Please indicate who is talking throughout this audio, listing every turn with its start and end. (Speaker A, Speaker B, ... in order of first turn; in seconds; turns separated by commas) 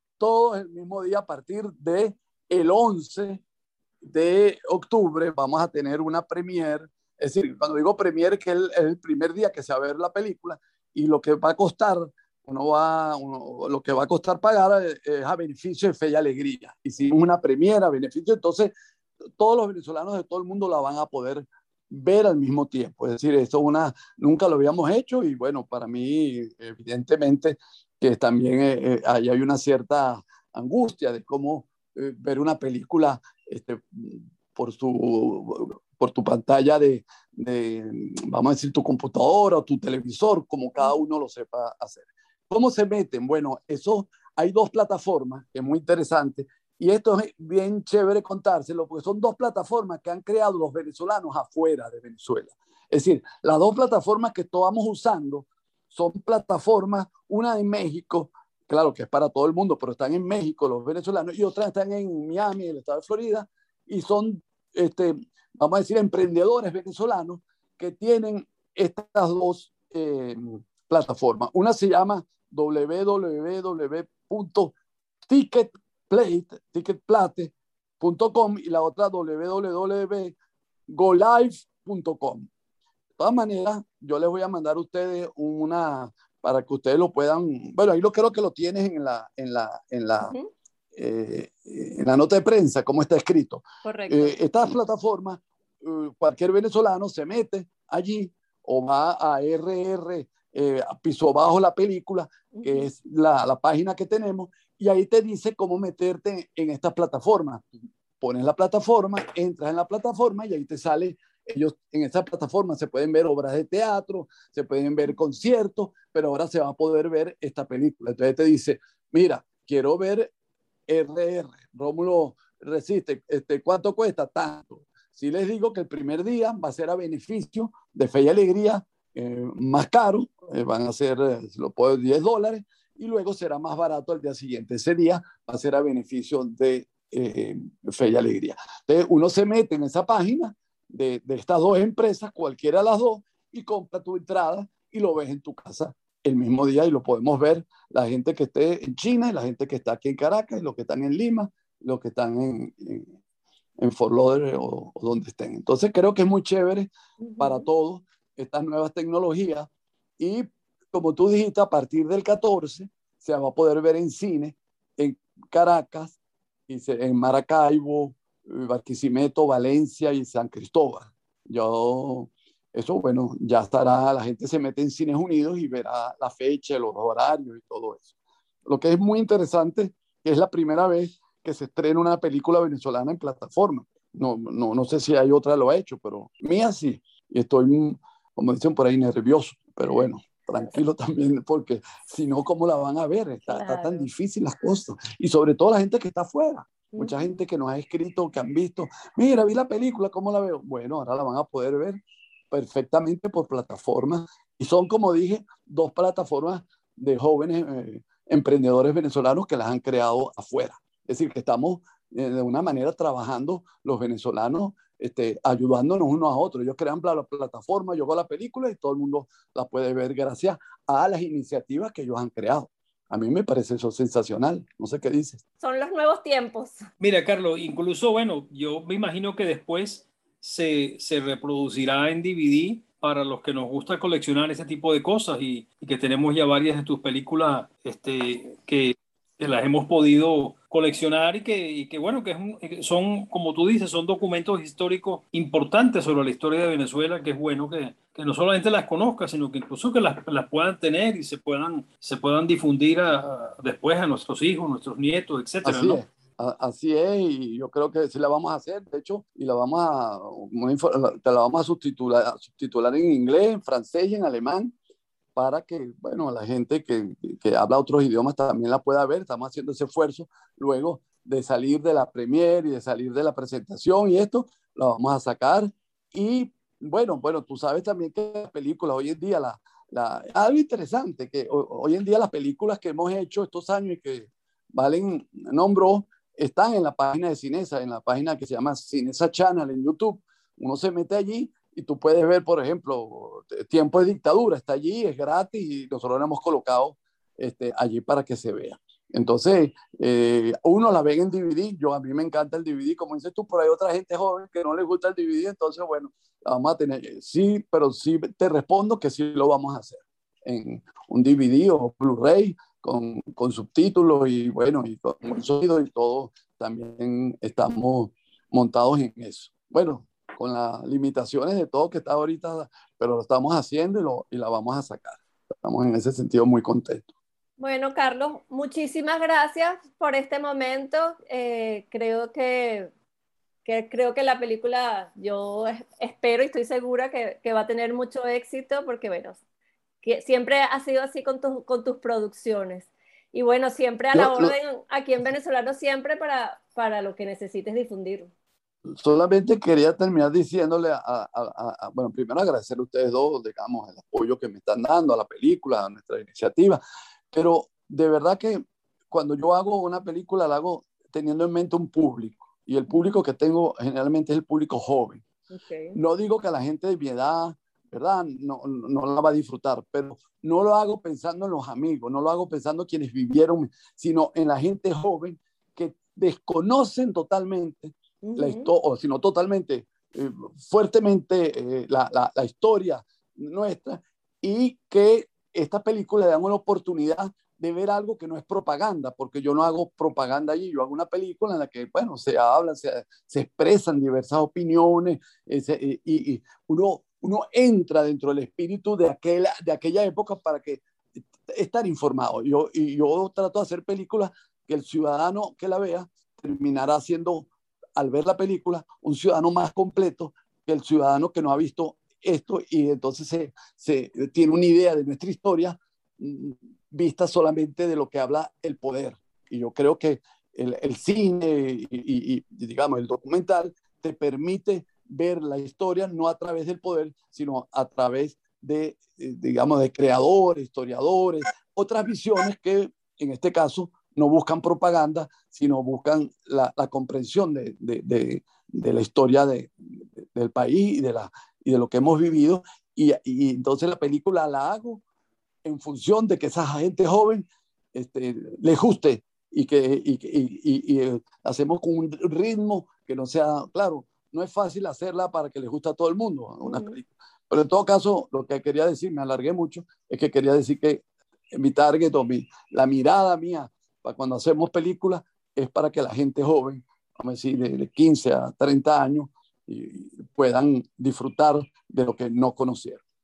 Speaker A: 0.2-3.4, Speaker A: 4.0-18.7, Speaker A: 19.4-74.7, Speaker A: 75.3-80.4, Speaker A: 80.9-82.5, Speaker A: 83.2-90.3, Speaker A: 91.0-120.3, Speaker B: 93.8-94.3, Speaker B: 102.5-102.9, Speaker A: 120.9-153.1, Speaker A: 153.8-159.7, Speaker B: 157.2-157.7, Speaker A: 160.2-166.2, Speaker A: 166.7-178.2, Speaker A: 178.7-202.0, Speaker B: 193.5-194.1, Speaker B: 196.9-197.3, Speaker A: 202.5-225.4, Speaker B: 225.6-226.9, Speaker C: 227.0-256.0, Speaker A: 255.7-264.7, Speaker A: 265.4-327.1, Speaker B: 327.6-332.9, Speaker B: 333.6-339.4, Speaker B: 340.0-348.3, Speaker A: 344.1-344.6, Speaker A: 348.9-356.8, Speaker A: 357.3-365.2, Speaker B: 365.5-366.0, Speaker A: 365.9-400.8, Speaker B: 378.2-378.7, Speaker A: 401.4-445.0, Speaker A: 445.6-473.0, Speaker B: 456.6-457.0